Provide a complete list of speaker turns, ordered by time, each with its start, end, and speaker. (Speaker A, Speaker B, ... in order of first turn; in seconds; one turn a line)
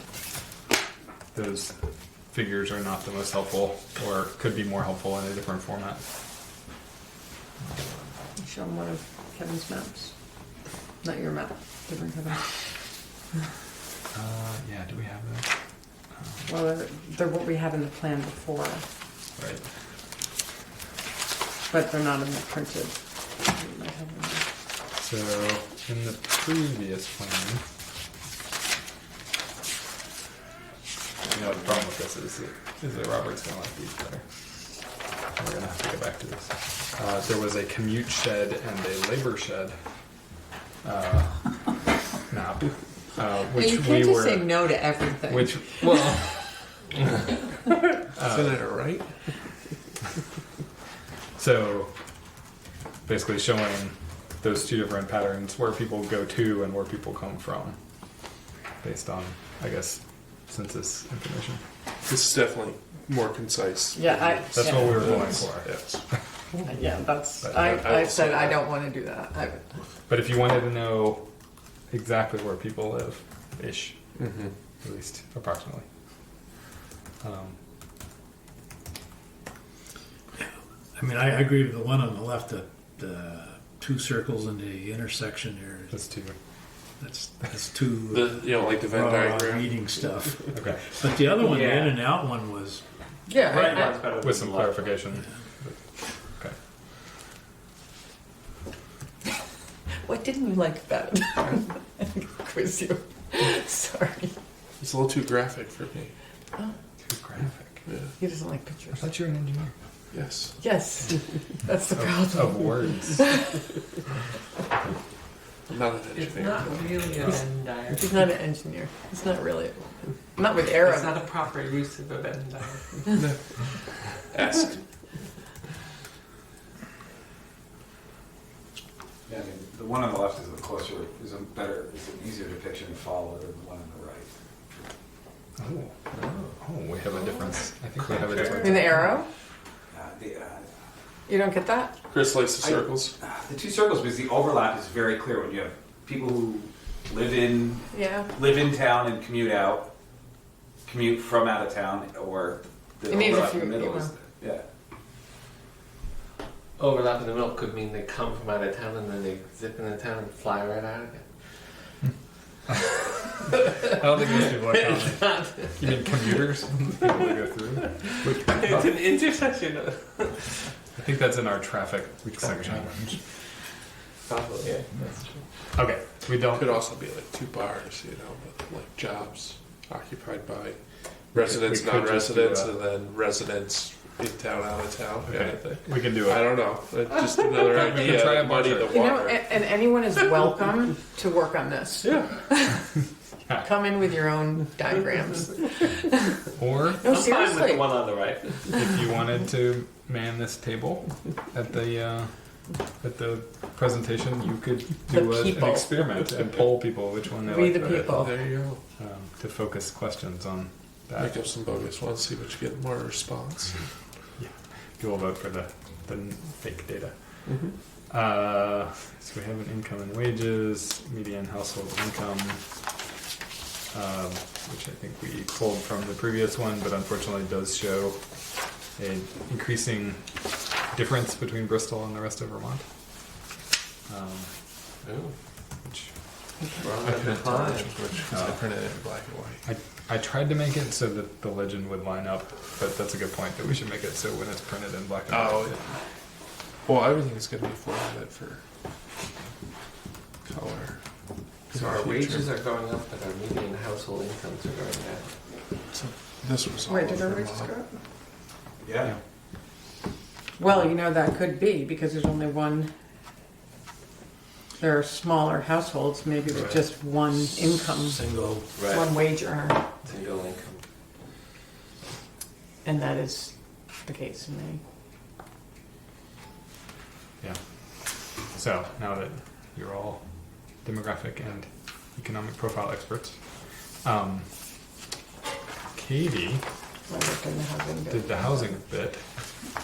Speaker A: 1.3-1.8
Speaker A: 2.3-6.1
Speaker B: 8.4-10.1
Speaker B: 11.0-12.6
Speaker A: 14.1-15.5
Speaker A: 16.2-16.5
Speaker B: 16.4-18.9
Speaker A: 19.4-19.7
Speaker B: 21.7-24.4
Speaker A: 25.0-27.6
Speaker A: 31.3-39.8
Speaker A: 40.8-41.7
Speaker A: 42.3-44.8
Speaker B: 43.5-45.8
Speaker A: 45.3-46.5
Speaker C: 48.1-49.1
Speaker A: 48.2-48.6
Speaker A: 51.4-51.9
Speaker A: 53.1-57.8
Speaker A: 58.8-61.6
Speaker C: 62.1-66.0
Speaker B: 63.9-65.5
Speaker A: 64.5-66.2
Speaker B: 66.5-69.8
Speaker A: 67.4-67.8
Speaker C: 67.7-68.7
Speaker A: 70.1-71.3
Speaker A: 71.9-74.0
Speaker C: 74.2-74.5
Speaker A: 74.8-75.9
Speaker A: 77.2-77.6
Speaker D: 81.0-86.0
Speaker A: 85.9-86.4
Speaker D: 87.0-92.8
Speaker C: 88.1-90.0
Speaker A: 90.5-90.8
Speaker E: 91.4-92.0
Speaker B: 93.3-94.0
Speaker E: 93.5-94.9
Speaker A: 93.5-95.8
Speaker B: 100.0-104.3
Speaker C: 104.8-106.1
Speaker A: 107.0-107.8
Speaker C: 107.9-108.1
Speaker B: 108.2-109.1
Speaker A: 109.0-109.7
Speaker C: 110.1-110.6
Speaker B: 110.6-113.6
Speaker A: 111.9-113.3
Speaker C: 115.7-117.4
Speaker E: 116.2-118.0
Speaker B: 117.9-121.3
Speaker E: 120.9-123.0
Speaker C: 123.1-123.4
Speaker C: 124.1-124.8
Speaker F: 129.3-134.3
Speaker A: 135.6-135.9
Speaker E: 136.1-136.5
Speaker A: 136.6-139.1
Speaker E: 138.0-139.0
Speaker B: 138.6-139.3
Speaker F: 139.9-140.7
Speaker B: 141.3-142.0
Speaker C: 142.1-143.2
Speaker F: 142.6-149.9
Speaker B: 147.9-148.3
Speaker F: 150.8-154.6
Speaker B: 153.1-154.2
Speaker E: 156.8-161.3
Speaker A: 163.8-168.9
Speaker E: 164.6-166.1
Speaker E: 168.3-170.4
Speaker A: 170.9-173.2
Speaker E: 174.3-175.4
Speaker A: 175.7-176.8
Speaker C: 176.5-180.8
Speaker C: 181.3-189.7
Speaker A: 181.3-182.7
Speaker A: 185.3-186.7
Speaker A: 187.6-189.0
Speaker B: 188.9-192.9
Speaker B: 193.6-196.5
Speaker A: 196.6-197.1
Speaker B: 197.0-197.9
Speaker E: 197.1-198.7
Speaker A: 198.7-208.2
Speaker B: 205.1-206.1
Speaker B: 207.4-208.5
Speaker C: 207.9-208.8
Speaker A: 209.0-211.4
Speaker C: 211.2-213.8
Speaker A: 214.4-217.5
Speaker C: 217.5-217.8
Speaker A: 218.1-222.7
Speaker A: 223.9-232.8
Speaker A: 234.1-234.5
Speaker E: 235.0-235.3
Speaker A: 235.8-236.1
Speaker E: 236.8-238.0
Speaker C: 237.0-239.6
Speaker A: 239.7-245.8
Speaker C: 245.3-246.0
Speaker C: 246.9-248.6
Speaker C: 250.4-251.0
Speaker C: 251.7-252.5
Speaker E: 251.7-255.3
Speaker C: 255.9-257.7
Speaker B: 256.9-257.9
Speaker F: 258.8-259.1
Speaker B: 260.6-262.9
Speaker B: 264.8-268.2
Speaker E: 268.4-269.1
Speaker B: 268.9-269.9
Speaker E: 270.0-270.8
Speaker B: 272.8-274.8
Speaker A: 277.4-284.5
Speaker A: 285.9-286.6
Speaker B: 287.1-288.8
Speaker A: 288.1-289.3